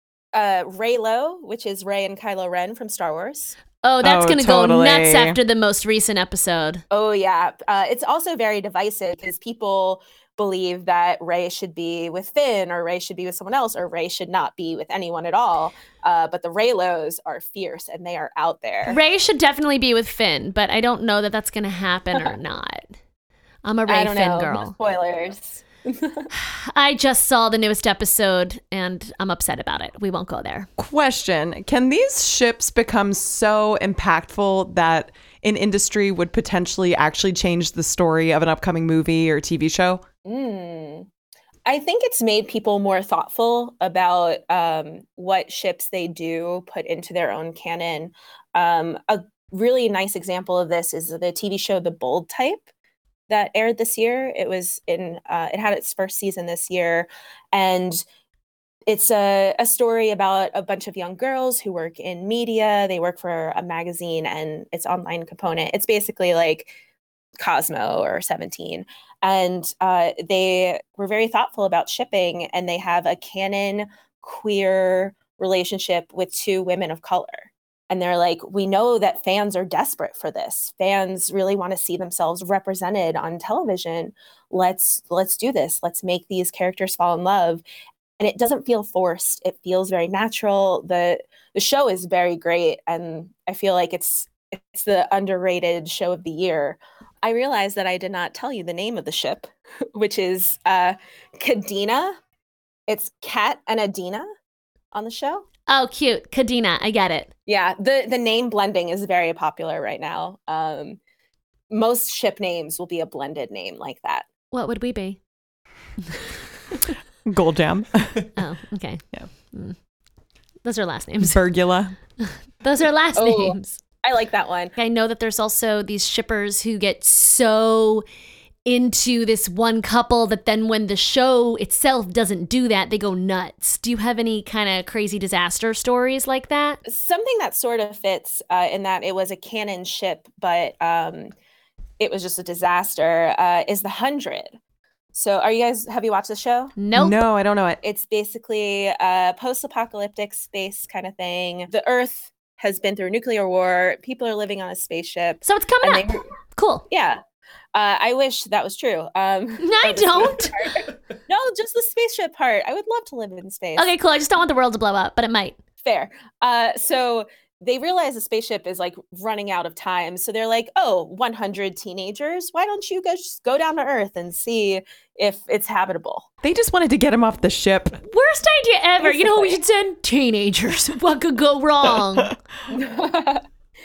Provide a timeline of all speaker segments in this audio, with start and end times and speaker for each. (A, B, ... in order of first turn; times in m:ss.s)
0:00.3-0:03.6 A
0:03.8-0:06.8 B
0:04.0-0:05.4 C
0:06.9-0:19.0 A
0:18.8-0:22.9 B
0:23.6-0:24.8 B
0:23.9-0:26.3 A
0:26.3-0:30.7 B
0:30.8-0:40.0 C
0:40.2-0:41.1 A
0:41.6-0:52.6 A
0:53.3-0:58.0 A
0:58.9-1:06.7 A
1:07.4-1:27.6 A
1:28.2-1:42.1 A
1:42.9-1:44.3 A
1:44.9-1:45.4 A
1:45.7-1:47.3 B
1:47.5-1:51.0 A
1:51.7-1:54.3 A
1:54.5-1:55.2 B
1:57.2-1:58.3 C
1:58.4-1:59.8 B
2:00.6-2:01.4 B
2:01.2-2:01.9 C
2:02.2-2:03.8 B
2:03.2-2:04.7 A
2:04.8-2:08.0 B
2:08.6-2:16.8 B
2:16.8-2:21.3 A
2:22.0-2:24.5 A
2:25.1-2:26.7 A
2:26.8-2:27.2 B
2:26.9-2:27.8 C
2:27.8-2:36.2 A
2:35.4-2:36.8 B
2:36.9-2:37.2 A
2:37.7-2:43.9 A
2:39.6-2:40.6 B
2:43.8-2:45.6 B
2:45.8-2:56.3 A
2:56.4-2:58.0 C
2:58.0-3:02.3 B
2:59.0-2:59.6 A
3:02.7-3:03.4 A